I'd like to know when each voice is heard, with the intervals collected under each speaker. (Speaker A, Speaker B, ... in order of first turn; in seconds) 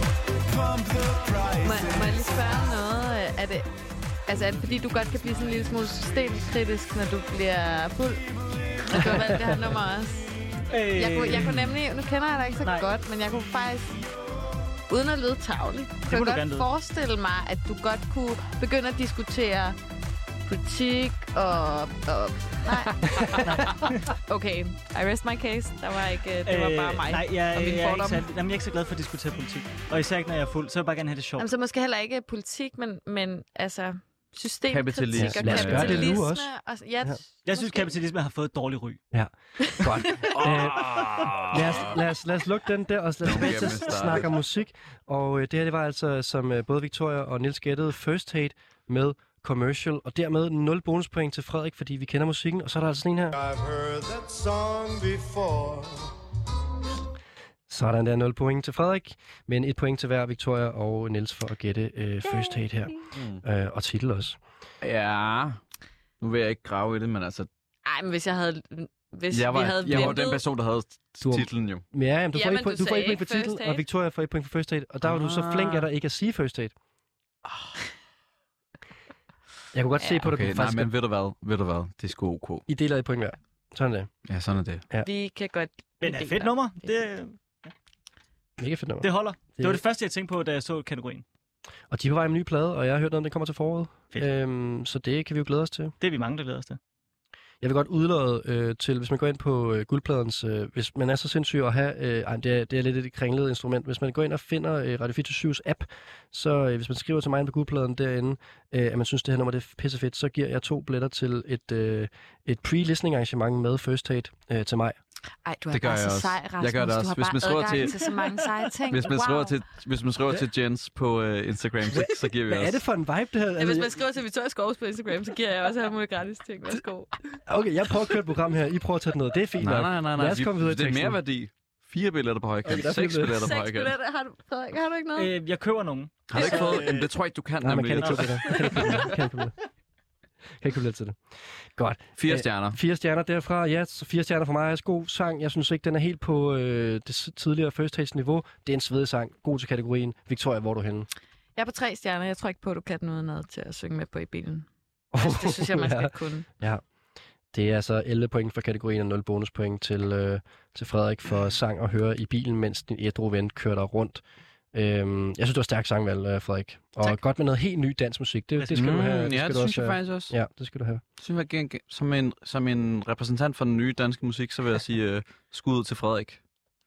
Speaker A: 0.4-2.3, 53.3-56.1
Speaker B: 1.6-3.7, 4.3-10.3, 10.9-14.0, 14.9-19.8, 20.5-28.2, 31.4-37.9, 67.8-70.4, 72.3-73.8, 80.0-80.2, 85.0-86.9, 115.4-119.5, 123.6-127.4, 133.3-135.3, 136.3-136.8, 138.5-138.7, 151.6-154.7, 155.2-156.5
Speaker C: 9.1-9.5, 35.1-36.5, 39.1-53.4, 57.7-64.4, 69.8-70.2, 71.2-76.7, 79.7-80.9, 82.7-84.1, 88.6-89.8, 91.9-95.9, 97.6-115.0, 121.9-124.0, 127.5-131.2, 132.6-133.5, 137.6-139.5, 140.6-141.2, 141.8-151.1, 155.1-156.8, 157.5-171.0
Speaker D: 10.7-11.7, 12.6-12.9, 16.1-16.7, 23.4-24.1, 26.4-31.4, 37.5-39.0, 86.0-87.7, 89.0-91.2, 96.0-96.8, 135.2-137.1, 138.0-138.9, 168.6-169.0
Speaker E: 34.7-36.1, 40.3-41.9, 43.2-44.3, 63.1-63.4, 64.8-65.6, 66.2-67.5, 69.3-71.8, 75.0-75.9, 80.2-82.7, 84.2-84.8, 115.7-118.0, 118.9-122.8, 129.6-133.9, 136.3-138.9, 142.2-142.8, 168.7-170.3, 171.2-176.4